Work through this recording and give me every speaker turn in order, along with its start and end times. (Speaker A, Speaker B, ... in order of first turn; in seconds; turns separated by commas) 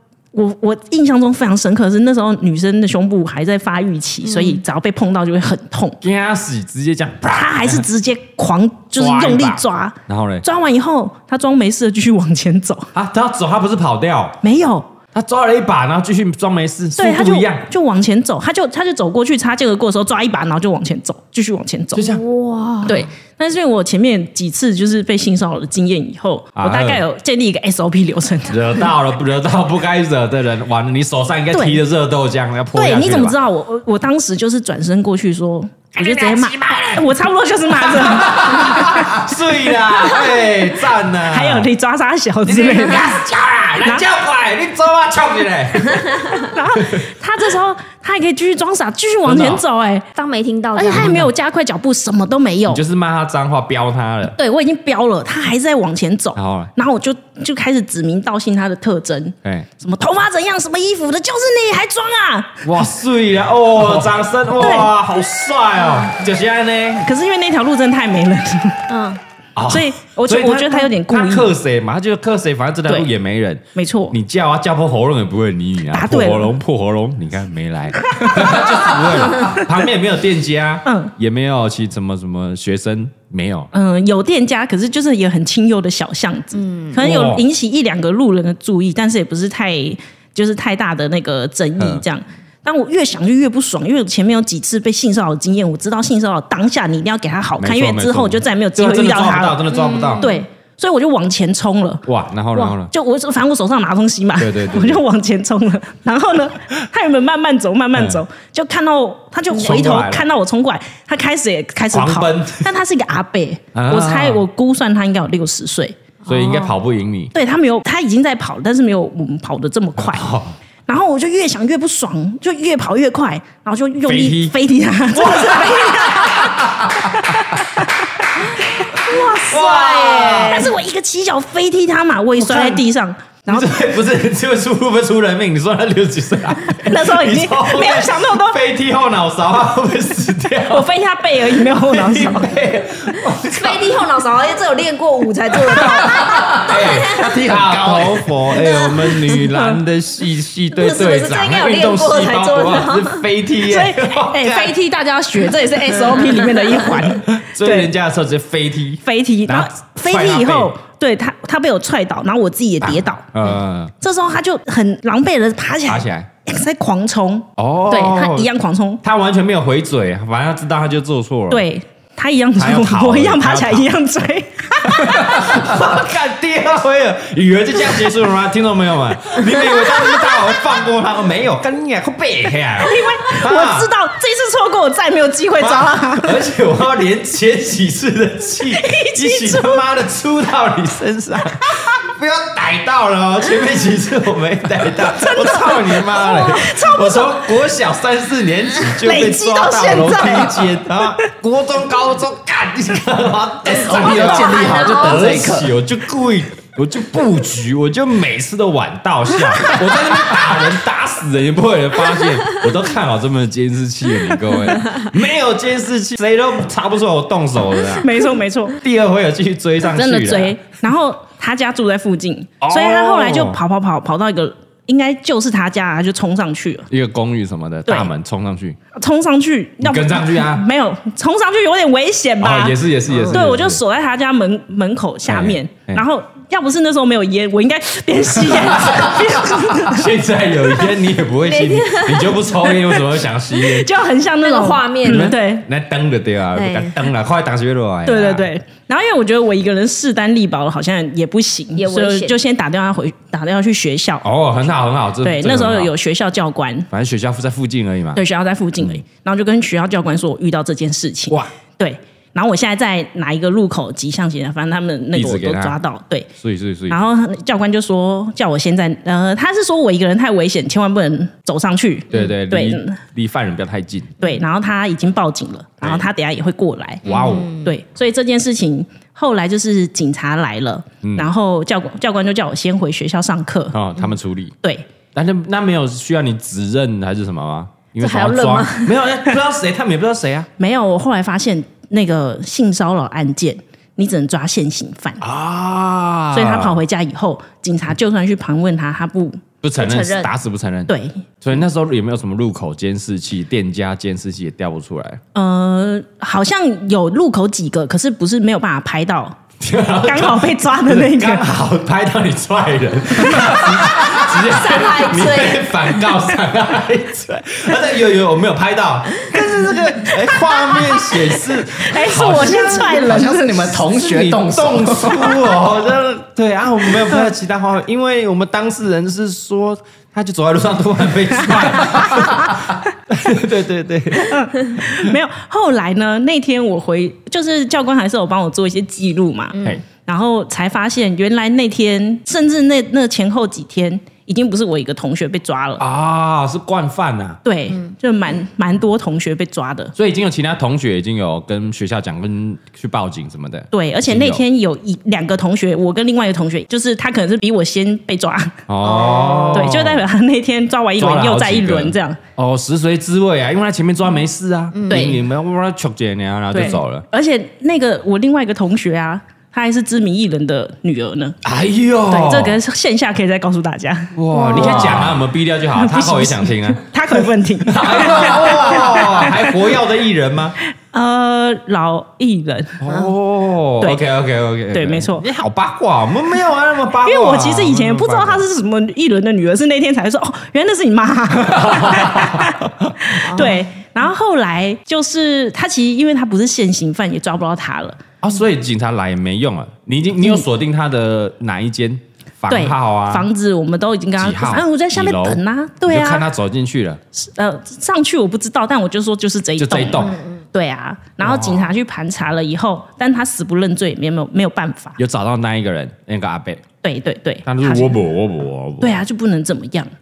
Speaker A: 0.3-6.0, Speaker B: 4.2-4.6, Speaker C: 6.0-7.8, Speaker A: 7.2-12.9, Speaker C: 8.9-10.4, Speaker C: 12.9-14.4, Speaker A: 14.4-14.9, Speaker C: 15.1-17.6, Speaker A: 17.0-22.0, Speaker C: 21.9-22.2, Speaker B: 22.0-23.1, Speaker A: 22.8-28.8, Speaker C: 26.6-27.0, Speaker C: 28.5-33.4, Speaker A: 31.5-31.8, Speaker A: 32.7-39.2, Speaker C: 35.9-37.0, Speaker C: 37.8-41.7, Speaker A: 41.2-43.2, Speaker C: 42.5-47.0, Speaker A: 43.8-44.1, Speaker A: 46.4-50.1, Speaker C: 49.2-49.6, Speaker B: 50.1-51.1, Speaker A: 50.7-52.8, Speaker C: 50.9-51.3, Speaker C: 52.7-54.4, Speaker A: 54.4-62.8, Speaker C: 56.3-56.7, Speaker C: 62.6-67.1, Speaker A: 64.5-64.9, Speaker A: 67.0-68.9, Speaker B: 68.9-69.2, Speaker C: 69.5-83.7, Speaker A: 69.7-71.5, Speaker A: 73.7-74.1, Speaker A: 75.9-76.5, Speaker A: 78.2-78.7, Speaker A: 80.8-81.1, Speaker A: 83.7-99.7, Speaker B: 86.5-87.0, Speaker C: 87.0-87.4, Speaker C: 91.8-92.0, Speaker C: 97.6-100.3, Speaker B: 99.7-100.4, Speaker A: 100.2-102.0, Speaker C: 102.0-102.9, Speaker A: 102.5-115.9, Speaker C: 104.4-105.0, Speaker C: 107.9-108.2, Speaker C: 109.5-110.2, Speaker C: 111.9-112.7, Speaker C: 113.7-114.4, Speaker B: 116.2-116.7, Speaker C: 116.3-117.3, Speaker A: 117.3-120.3, Speaker C: 120.0-120.5, Speaker A: 120.9-127.9, Speaker C: 124.0-124.5, Speaker C: 125.1-127.6, Speaker B: 128.9-130.7, Speaker C: 129.0-130.7, Speaker A: 129.0-133.8, Speaker C: 132.4-132.8, Speaker C: 133.5-140.9, Speaker A: 136.7-138.6, Speaker A: 140.7-142.6, Speaker C: 141.5-143.9, Speaker B: 143.5-147.3, Speaker C: 145.7-154.7, Speaker D: 147.1-148.3, Speaker B: 148.6-149.2, Speaker A: 149.5-149.8, Speaker B: 150.7-153.2, Speaker A: 153.6-157.9, Speaker C: 157.1-160.7, Speaker A: 159.0-163.3, Speaker C: 162.8-163.9, Speaker A: 164.0-169.0, Speaker C: 165.8-166.3, Speaker C: 167.6-168.5, Speaker C: 169.0-171.6, Speaker A: 171.5-175.7, Speaker C: 172.6-173.8, Speaker C: 174.8-183.9, Speaker A: 179.5-180.6, Speaker A: 182.8-186.4, Speaker C: 185.6-218.1, Speaker A: 188.7-189.8, Speaker A: 195.0-197.4, Speaker A: 199.0-201.0, Speaker D: 203.6-205.8, Speaker B: 203.9-205.4, Speaker A: 218.0-218.8, Speaker C: 218.8-220.6, Speaker A: 219.8-226.9, Speaker C: 222.6-223.6, Speaker C: 226.9-228.8, Speaker A: 228.9-240.1, Speaker C: 229.8-230.7, Speaker C: 232.4-233.8, Speaker C: 235.3-236.0, Speaker C: 239.7-243.9, Speaker B: 241.4-243.0, Speaker A: 243.6-245.7, Speaker B: 244.4-245.4, Speaker C: 245.0-248.5, Speaker B: 246.5-247.1, Speaker A: 248.1-254.2, Speaker B: 251.7-252.3, Speaker C: 254.2-255.9, Speaker A: 255.2-256.9, Speaker C: 256.9-258.2, Speaker A: 258.1-266.3, Speaker C: 258.8-259.0, Speaker C: 265.1-265.8, Speaker C: 266.4-267.0, Speaker A: 266.9-273.0, Speaker C: 272.1-274.2, Speaker A: 274.2-283.7, Speaker C: 275.8-276.1, Speaker C: 277.0-277.5, Speaker B: 277.1-277.7, Speaker C: 281.0-281.3, Speaker C: 283.7-284.5, Speaker C: 285.1-290.5, Speaker B: 288.0-289.0, Speaker A: 290.6-295.2, Speaker C: 295.2-296.8, Speaker A: 296.3-299.4, Speaker C: 299.6-305.2, Speaker B: 299.8-300.3, Speaker A: 300.9-301.2, Speaker A: 305.3-309.4, Speaker C: 309.6-323.1, Speaker A: 310.0-311.5, Speaker B: 314.3-315.7, Speaker A: 320.3-323.8, Speaker D: 322.5-325.5, Speaker C: 323.9-334.9, Speaker A: 331.9-332.2, Speaker A: 334.2-345.8, Speaker C: 345.8-347.4, Speaker A: 347.4-349.9, Speaker C: 349.9-354.4, Speaker A: 353.7-362.2, Speaker C: 358.7-360.1, Speaker B: 358.8-359.7, Speaker C: 361.0-367.0, Speaker B: 364.7-365.2, Speaker A: 364.9-365.2, Speaker A: 366.5-371.4, Speaker C: 371.4-372.6, Speaker A: 372.1-375.1, Speaker C: 374.1-376.9, Speaker B: 374.3-375.0, Speaker A: 375.7-379.5, Speaker C: 377.6-380.6, Speaker A: 380.9-382.8, Speaker C: 382.8-388.4, Speaker A: 384.7-385.2, Speaker A: 387.0-398.0, Speaker C: 391.4-392.9, Speaker B: 393.2-393.6, Speaker C: 398.2-403.3, Speaker A: 402.5-406.2, Speaker C: 404.2-407.0, Speaker A: 407.1-415.0, Speaker C: 409.6-410.1, Speaker B: 409.9-410.4, Speaker C: 411.2-411.7, Speaker C: 415.0-416.6, Speaker A: 416.8-418.0, Speaker C: 417.4-419.0, Speaker A: 418.8-419.9